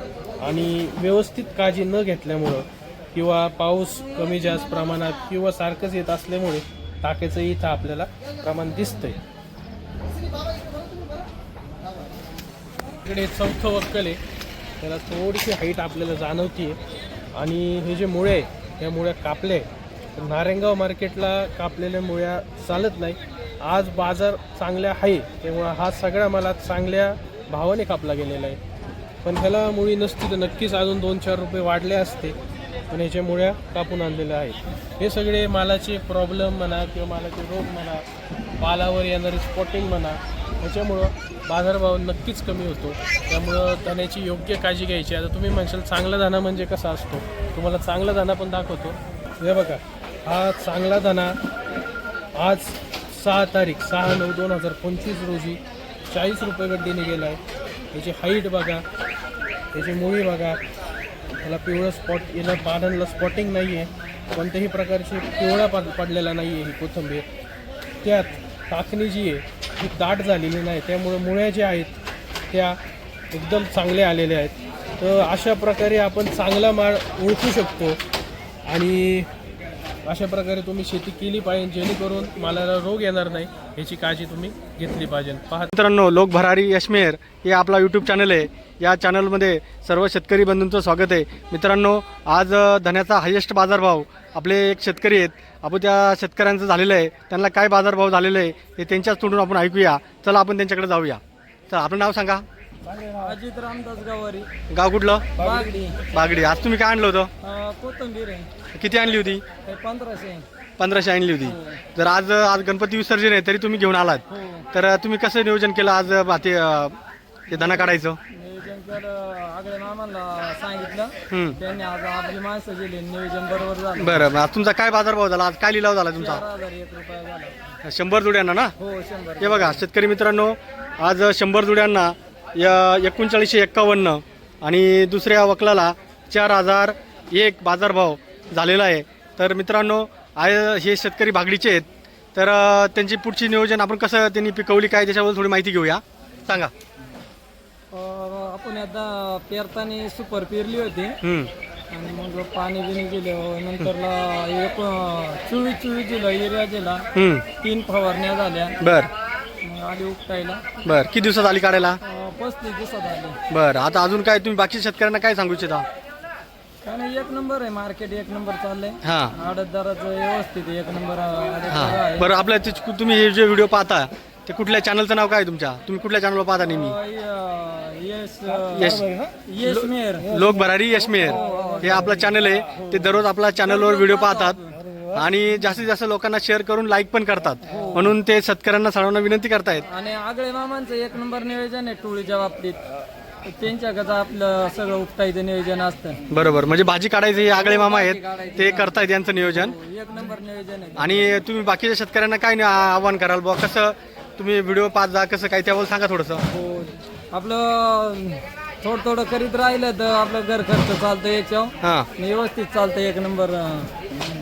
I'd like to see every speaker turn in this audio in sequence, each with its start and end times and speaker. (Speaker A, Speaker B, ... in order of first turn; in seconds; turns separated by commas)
Speaker A: 0.4-9.2, Speaker A: 13.0-14.2, Speaker A: 14.8-16.8, Speaker A: 17.3-28.6, Speaker A: 29.2-32.4, Speaker A: 32.9-38.0, Speaker A: 38.6-51.4, Speaker A: 52.4-57.4, Speaker A: 57.9-58.8, Speaker A: 59.7-60.6, Speaker A: 61.4-67.2, Speaker A: 68.0-72.0, Speaker A: 72.5-72.8, Speaker A: 73.3-78.0, Speaker A: 78.7-79.3, Speaker A: 80.0-85.7, Speaker B: 85.7-102.4, Speaker C: 103.0-104.5, Speaker B: 104.7-105.5, Speaker C: 105.4-106.1, Speaker B: 106.1-107.3, Speaker C: 107.4-108.5, Speaker B: 108.7-109.5, Speaker C: 109.6-110.5, Speaker B: 110.8-117.0, Speaker C: 111.4-111.8, Speaker C: 114.3-114.7, Speaker B: 117.5-118.2, Speaker C: 117.5-124.2, Speaker B: 121.3-121.6, Speaker B: 124.0-126.4, Speaker C: 126.1-127.7, Speaker B: 127.8-128.7, Speaker C: 128.8-129.8, Speaker B: 129.4-146.7, Speaker C: 147.9-151.2, Speaker B: 151.2-151.5, Speaker C: 151.9-157.1, Speaker B: 157.1-157.5, Speaker C: 157.6-158.8, Speaker B: 158.8-159.1, Speaker C: 159.6-160.7, Speaker B: 160.8-162.0, Speaker C: 162.0-163.4, Speaker B: 163.5-165.8, Speaker C: 166.8-172.4, Speaker B: 169.0-169.3, Speaker B: 171.7-177.0, Speaker C: 176.6-180.4, Speaker B: 178.7-184.6, Speaker C: 181.2-182.2, Speaker C: 183.6-184.8, Speaker B: 185.1-189.8, Speaker C: 187.7-188.1, Speaker C: 189.9-196.2, Speaker B: 196.3-199.8, Speaker C: 197.5-201.4, Speaker B: 201.0-206.4, Speaker C: 206.5-214.1, Speaker B: 211.8-212.1